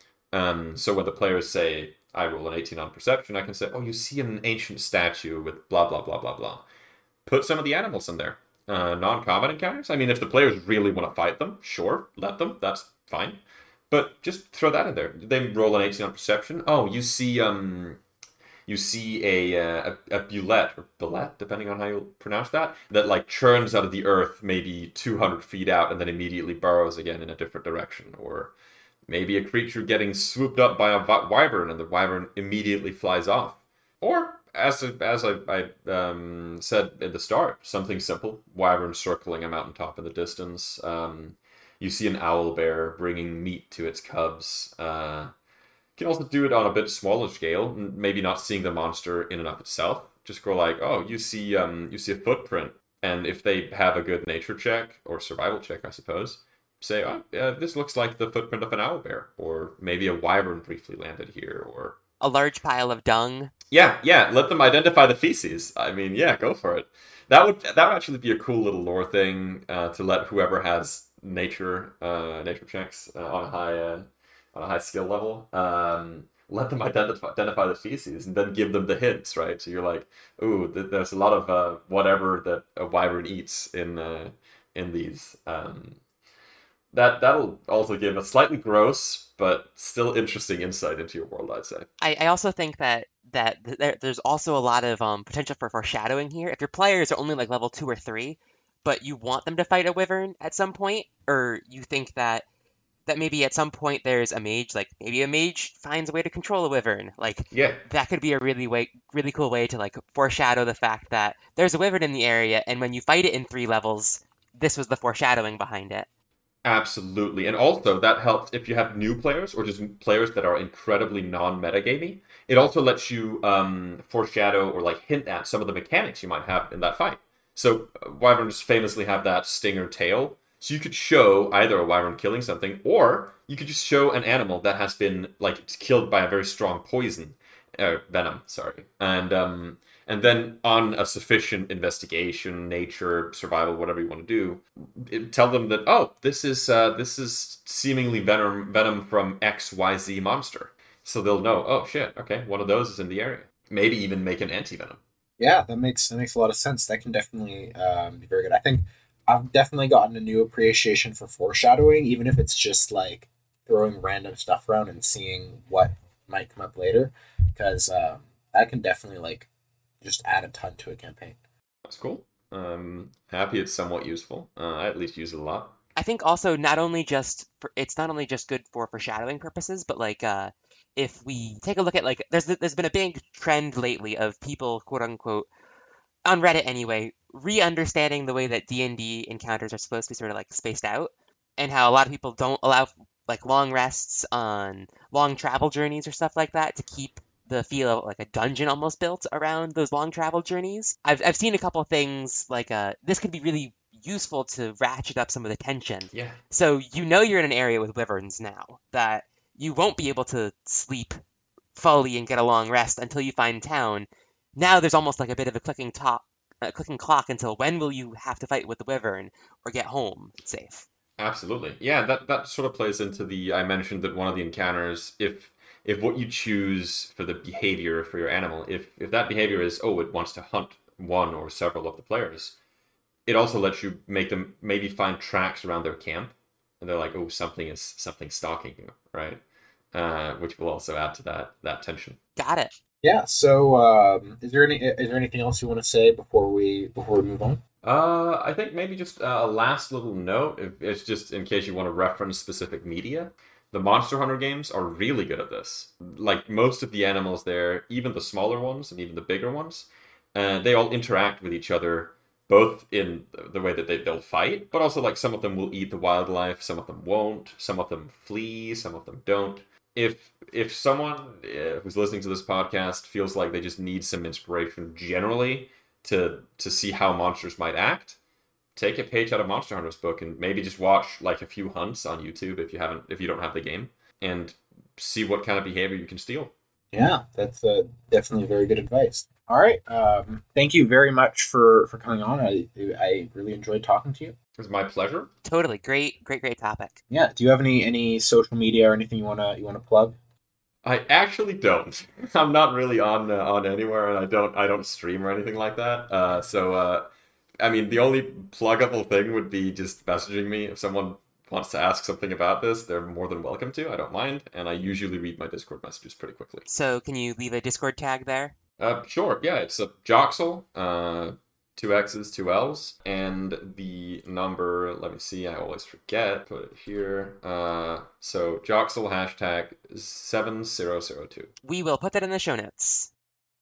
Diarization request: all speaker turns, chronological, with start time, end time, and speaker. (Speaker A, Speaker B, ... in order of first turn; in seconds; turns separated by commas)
Speaker A: 0.3-6.6, Speaker A: 7.3-18.0, Speaker A: 18.7-28.5, Speaker A: 29.1-45.3, Speaker A: 46.0-62.0, Speaker B: 62.2-63.5, Speaker A: 63.7-86.0, Speaker A: 86.9-91.9, Speaker B: 92.0-102.5, Speaker B: 103.0-116.1, Speaker A: 107.5-107.8, Speaker A: 116.6-155.0, Speaker C: 155.4-169.5, Speaker C: 170.0-171.4, Speaker A: 171.9-175.8, Speaker B: 175.9-185.5, Speaker B: 186.2-211.2, Speaker A: 206.1-206.4, Speaker B: 211.8-220.9, Speaker A: 221.2-232.6, Speaker A: 233.3-239.4, Speaker A: 239.9-242.2, Speaker B: 242.4-242.7, Speaker C: 243.0-247.6, Speaker A: 247.8-278.2, Speaker A: 278.8-286.5, Speaker C: 286.9-294.4, Speaker A: 294.6-295.3, Speaker B: 295.4-297.0, Speaker C: 297.1-300.2, Speaker A: 300.8-307.1, Speaker A: 307.6-316.7, Speaker B: 316.7-318.6, Speaker A: 318.8-331.5, Speaker B: 331.6-333.1